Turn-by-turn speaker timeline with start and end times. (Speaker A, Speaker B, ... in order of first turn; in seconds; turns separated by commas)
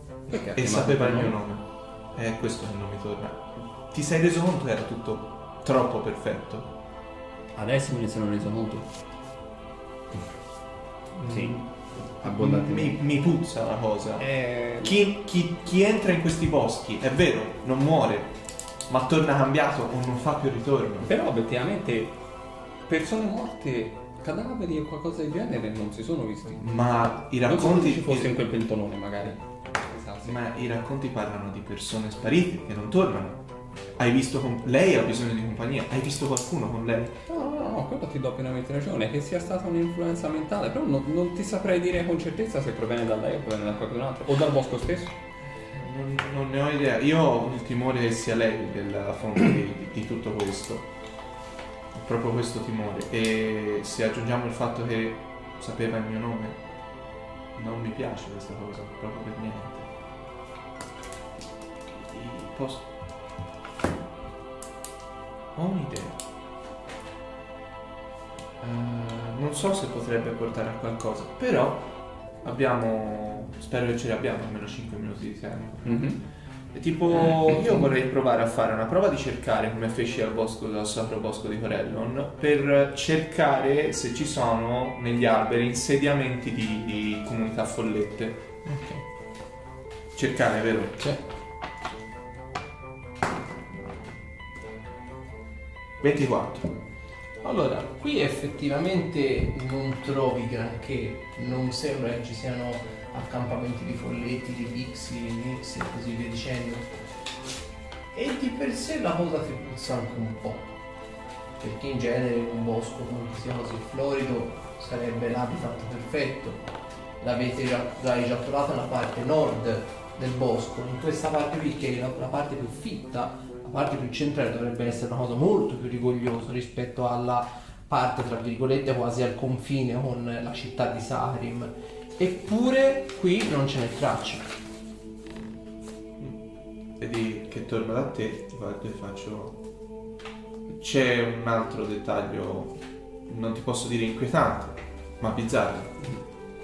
Speaker A: 0.3-1.4, Speaker B: 0.6-1.6, Speaker B: 2.1-6.7, Speaker A: 7.5-8.8, Speaker B: 11.2-11.7, Speaker A: 11.2-11.6, Speaker A: 12.2-13.0, Speaker B: 12.2-14.2, Speaker A: 14.2-14.9, Speaker B: 14.8-18.3, Speaker B: 18.9-21.1, Speaker A: 21.0-22.1, Speaker A: 22.9-26.7, Speaker B: 26.6-28.3, Speaker A: 27.4-30.4, Speaker B: 30.2-33.4, Speaker B: 34.0-37.2, Speaker A: 37.3-45.1, Speaker B: 45.8-50.9, Speaker B: 51.9-56.6, Speaker B: 57.5-59.9, Speaker B: 61.9-62.9, Speaker B: 65.5-66.2, Speaker B: 68.6-71.9, Speaker B: 72.4-76.1, Speaker A: 75.8-76.2, Speaker B: 76.7-88.4, Speaker A: 77.1-77.9, Speaker C: 88.6-89.0, Speaker B: 90.1-91.0, Speaker B: 96.0-96.8, Speaker C: 97.4-106.9, Speaker C: 108.1-110.7, Speaker C: 111.6-116.6, Speaker C: 117.2-134.4, Speaker B: 137.0-139.6, Speaker B: 140.8-142.8, Speaker B: 143.3-145.9